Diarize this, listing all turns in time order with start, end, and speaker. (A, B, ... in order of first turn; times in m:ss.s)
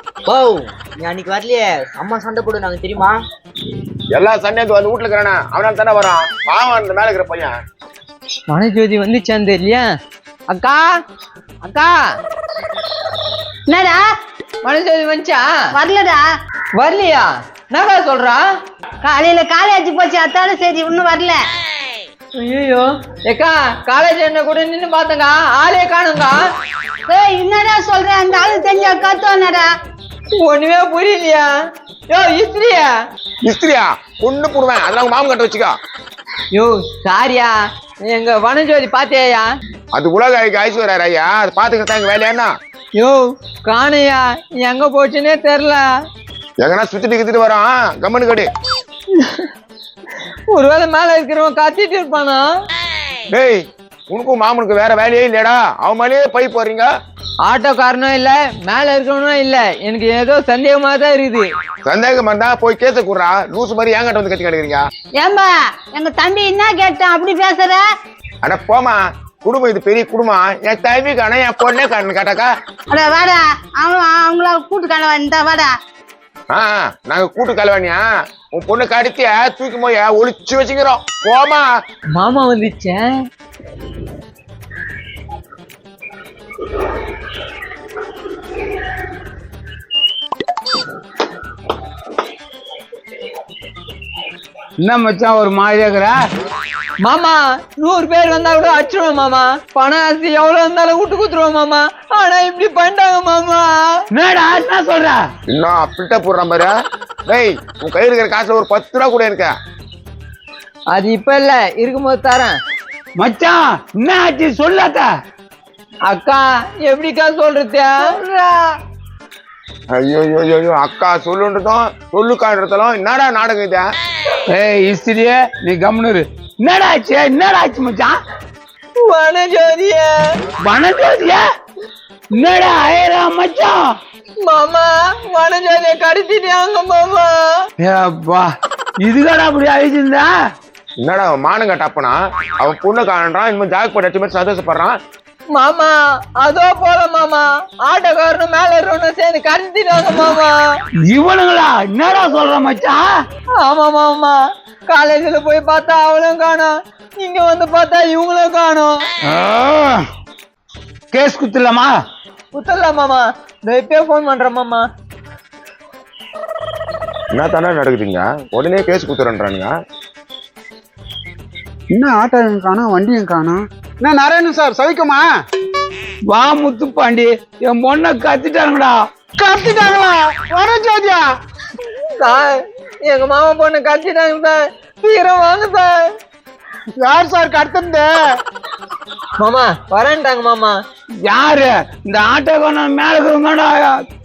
0:00.3-0:03.2 A
0:04.1-0:07.6 B
0:08.5-0:09.9 C
0:10.5-0:10.9 C
0:11.6-0:12.0 C
0:13.7-0:14.0 D
0:14.6-0:15.5 C
0:15.7-0:16.2 D
0:16.8-0:18.4 C
0:19.0-0:21.4 D
0:22.4-0:26.4 C
0:27.1-0:29.7 D
0:30.4-0:31.5 C
0:32.1-0:32.9 C
0:33.4-0:35.7 B
0:36.5-0:37.5 C
0:38.0-0:39.4 C
0:40.0-0:42.5 B
0:43.0-0:45.8 C
0:46.6-0:48.5 B
0:49.1-0:49.5 C
0:50.5-0:52.4 C
0:53.3-0:56.9 B
0:57.4-1:01.5 C
1:01.9-1:04.8 B
1:05.2-1:07.8 D
1:08.4-1:12.5 B
1:12.9-1:15.7 D
1:16.5-1:21.7 B
1:22.1-1:23.2 C
1:34.8-1:36.2 E
1:37.0-1:43.9 C
1:44.1-1:45.2 E
1:45.5-1:46.7 B
1:47.3-1:49.5 B
1:50.9-1:52.5 C
1:53.2-1:55.1 E
1:56.1-1:58.7 C
1:59.9-2:03.9 B
2:04.5-2:08.2 E
2:09.0-2:10.1 C
2:10.6-2:11.4 E
2:12.3-2:14.0 E
2:14.4-2:17.4 C
2:17.8-2:18.5 E
2:19.0-2:20.3 E
2:21.0-2:25.0 B
2:25.5-2:30.6 C
2:31.0-2:33.1 E
2:33.6-2:34.4 C
2:34.9-2:39.0 C
2:39.3-2:40.0 E
2:41.1-2:42.0 E
2:42.5-2:44.8 C
2:47.3-2:49.7 B
2:51.9-2:55.3 F
2:56.3-2:59.0 E
2:59.4-3:01.2 F
3:02.2-3:05.9 C
3:07.0-3:08.1 F
3:09.4-3:10.8 C
3:11.2-3:14.0 E